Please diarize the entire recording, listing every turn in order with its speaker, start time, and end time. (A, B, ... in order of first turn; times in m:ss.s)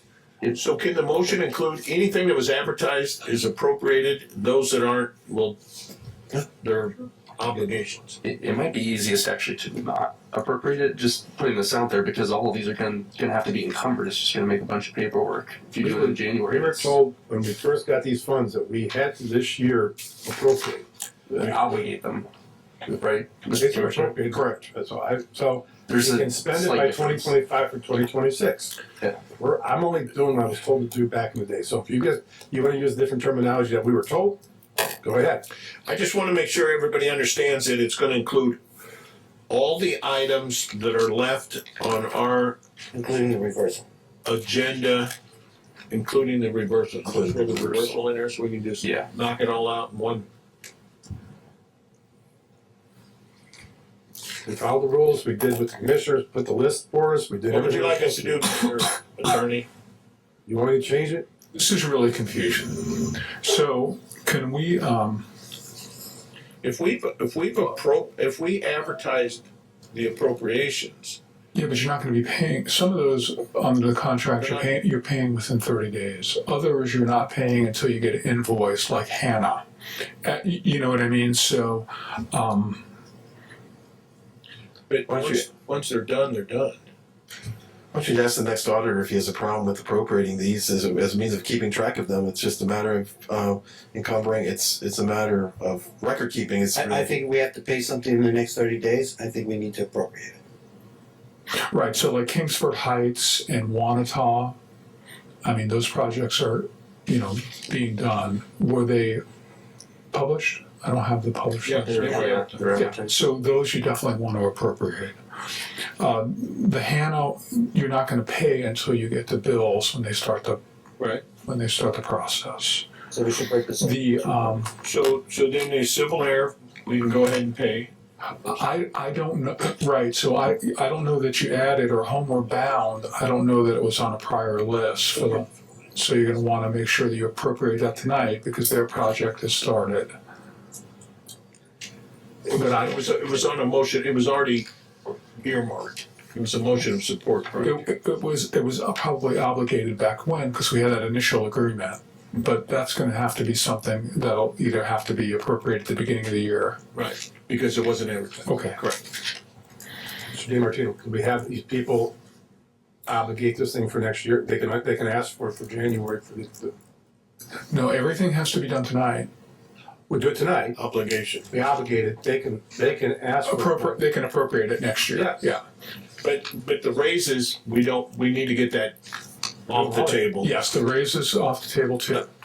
0:00.4-0:05.6 A
0:06.6-0:08.2 A
0:08.8-0:15.9 B
0:15.8-0:20.8 C
0:16.6-0:16.9 B
0:21.4-0:21.7 A
0:21.4-0:22.2 B
0:22.8-0:23.9 B
0:23.5-0:28.7 C
0:25.9-0:27.1 B
0:29.3-0:34.4 C
0:35.0-0:35.4 C
0:35.8-0:38.6 A
0:39.5-0:42.6 A
0:42.9-0:43.8 D
0:44.2-0:45.1 A
0:45.9-0:50.2 A
0:54.4-0:58.4 C
0:57.5-0:59.7 A
1:00.4-1:01.2 C
1:01.5-1:05.2 E
1:06.6-1:11.2 A
1:11.5-1:19.6 E
1:14.4-1:14.7 A
1:20.2-1:22.8 E
1:24.9-1:26.8 A
1:25.1-1:25.4 F
1:27.9-1:37.1 F
1:36.8-1:40.3 D
1:41.7-1:44.6 E
1:45.4-1:49.2 E
1:50.1-1:55.1 E
1:51.6-1:53.0 A
1:56.0-2:00.6 E
2:01.4-2:02.9 E
2:03.8-2:04.7 E
2:04.8-2:07.9 A
2:08.3-2:20.1 E
2:22.5-2:24.7 A
2:22.5-2:23.0 E
2:25.4-2:27.8 A
2:27.6-2:36.8 E
2:36.9-2:39.1 A
2:38.4-2:38.8 E
2:40.3-2:42.1 C
2:43.0-2:46.7 C
2:47.7-2:49.3 E
2:50.1-2:50.8 C
2:50.7-2:51.5 A
2:51.5-2:54.0 C
2:53.4-2:55.6 E
2:55.1-2:55.5 C
2:56.2-2:59.0 A
2:59.7-3:00.6 A
2:59.7-3:00.3 C
3:00.4-3:02.2 E